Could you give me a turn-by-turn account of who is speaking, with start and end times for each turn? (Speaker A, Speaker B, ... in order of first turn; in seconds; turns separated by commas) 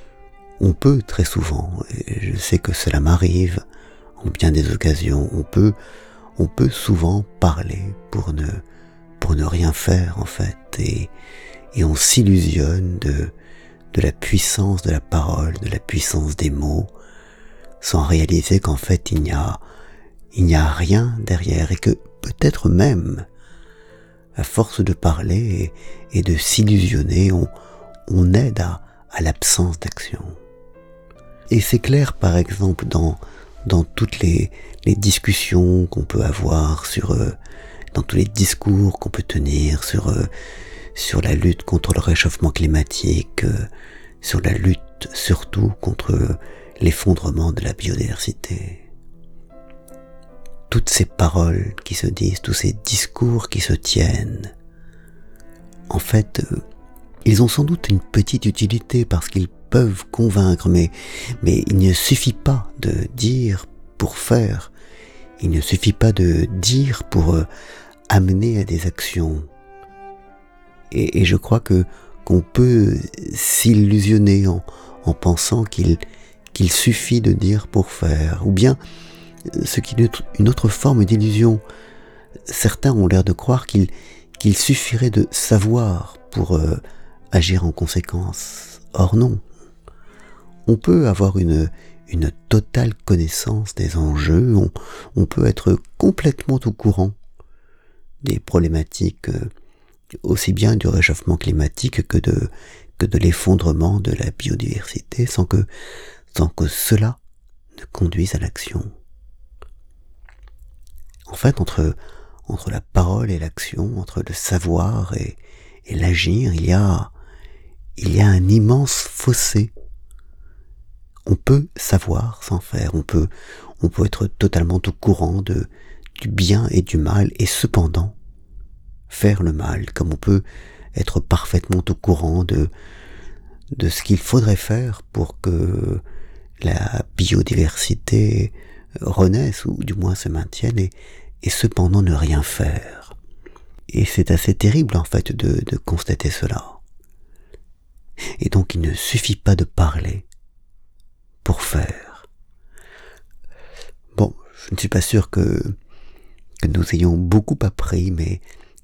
Speaker A: 0.6-3.6, Speaker A: 4.2-5.8, Speaker A: 6.3-8.6, Speaker A: 9.2-11.1, Speaker A: 11.7-13.3, Speaker A: 13.9-16.9, Speaker A: 17.8-19.6, Speaker A: 20.3-23.2, Speaker A: 24.4-27.5, Speaker A: 28.1-30.4, Speaker A: 31.5-37.4, Speaker A: 37.9-40.3, Speaker A: 40.9-43.7, Speaker A: 44.2-48.8, Speaker A: 50.7-54.5, Speaker A: 55.9-56.6, Speaker A: 57.2-64.7, Speaker A: 65.4-67.5, Speaker A: 68.1-69.5, Speaker A: 70.9-76.0, Speaker A: 76.5-78.8, Speaker A: 79.5-81.6, Speaker A: 82.5-86.8, Speaker A: 87.3-89.4, Speaker A: 90.7-97.1, Speaker A: 98.2-99.5, Speaker A: 100.2-105.7, Speaker A: 106.3-107.2, Speaker A: 107.7-108.9, Speaker A: 111.3-117.1, Speaker A: 118.0-119.7, Speaker A: 121.3-128.2, Speaker A: 129.1-132.7, Speaker A: 133.7-136.0, Speaker A: 136.6-143.2, Speaker A: 143.9-146.8, Speaker A: 148.4-150.2, Speaker A: 151.4-152.3, Speaker A: 154.1-155.7, Speaker A: 156.6-158.4